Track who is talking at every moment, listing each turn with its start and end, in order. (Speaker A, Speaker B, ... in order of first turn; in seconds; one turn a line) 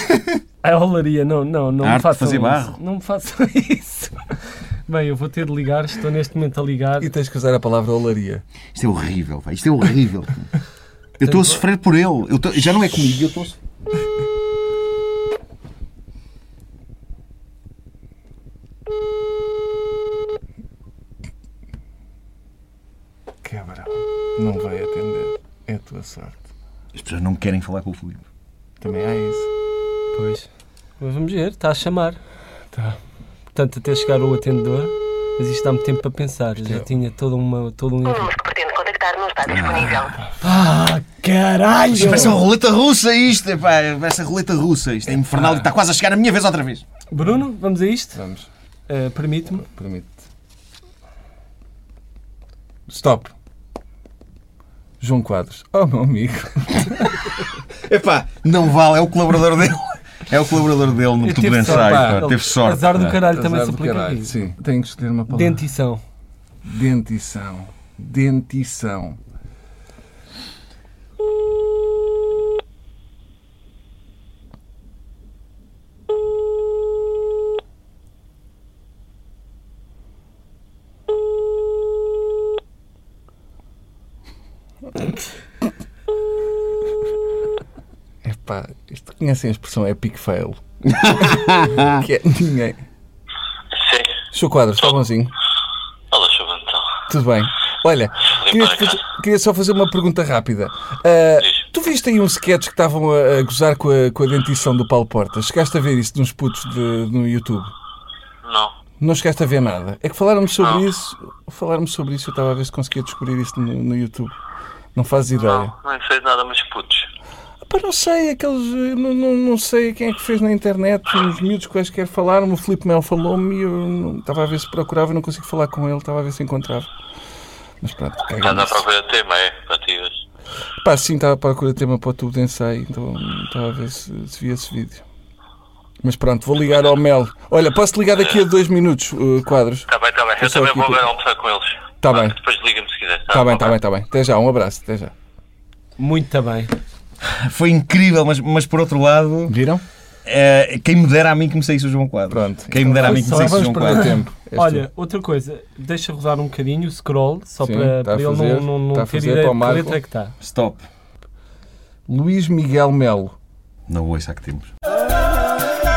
Speaker A: 0.6-7.1
Speaker B: 1.8-2.8
Speaker C: 7.0-8.4
Speaker B: 8.8-10.5
Speaker B: 11.2-13.6
Speaker A: 11.2-11.6
Speaker C: 23.4-26.5
Speaker B: 26.9-28.3
Speaker C: 28.8-29.5
Speaker A: 30.1-30.5
Speaker A: 31.0-32.2
Speaker C: 32.7-33.0
Speaker A: 33.5-38.3
Speaker C: 36.6-36.9
Speaker D: 38.1-40.2
Speaker B: 39.5-39.9
Speaker C: 39.8-40.4
Speaker A: 40.4-42.4
Speaker B: 41.9-46.8
Speaker C: 42.0-42.4
Speaker C: 45.3-45.7
Speaker A: 47.1-48.2
Speaker C: 48.1-48.5
Speaker A: 48.9-49.7
Speaker C: 49.6-50.2
Speaker C: 52.9-53.3
Speaker C: 55.0-57.2
Speaker B: 57.9-63.2
Speaker A: 61.2-64.3
Speaker C: 61.6-62.3
Speaker C: 63.1-65.7
Speaker A: 65.3-66.0
Speaker C: 66.7-69.2
Speaker C: 88.2-90.6
Speaker B: 90.9-92.0
Speaker C: 91.9-92.8
Speaker E: 93.8-94.2
Speaker C: 94.3-95.3
Speaker E: 96.1-96.9
Speaker C: 97.1-107.7
Speaker E: 98.4-99.0
Speaker E: 108.4-108.7
Speaker C: 109.0-114.3
Speaker E: 110.6-110.8
Speaker C: 115.0-115.7
Speaker E: 115.3-117.1
Speaker C: 117.6-126.9
Speaker C: 127.8-128.9
Speaker E: 128.4-130.2
Speaker C: 130.8-135.0
Speaker C: 136.0-141.1
Speaker E: 139.9-143.8
Speaker C: 142.0-142.4
Speaker C: 143.3-145.1
Speaker A: 146.0-146.7
Speaker B: 147.3-149.6
Speaker C: 149.5-149.8
Speaker B: 150.3-154.2
Speaker C: 152.3-154.9
Speaker A: 153.1-160.3
Speaker C: 157.6-160.0
Speaker B: 160.4-160.8
Speaker C: 162.1-163.3
Speaker B: 163.9-164.7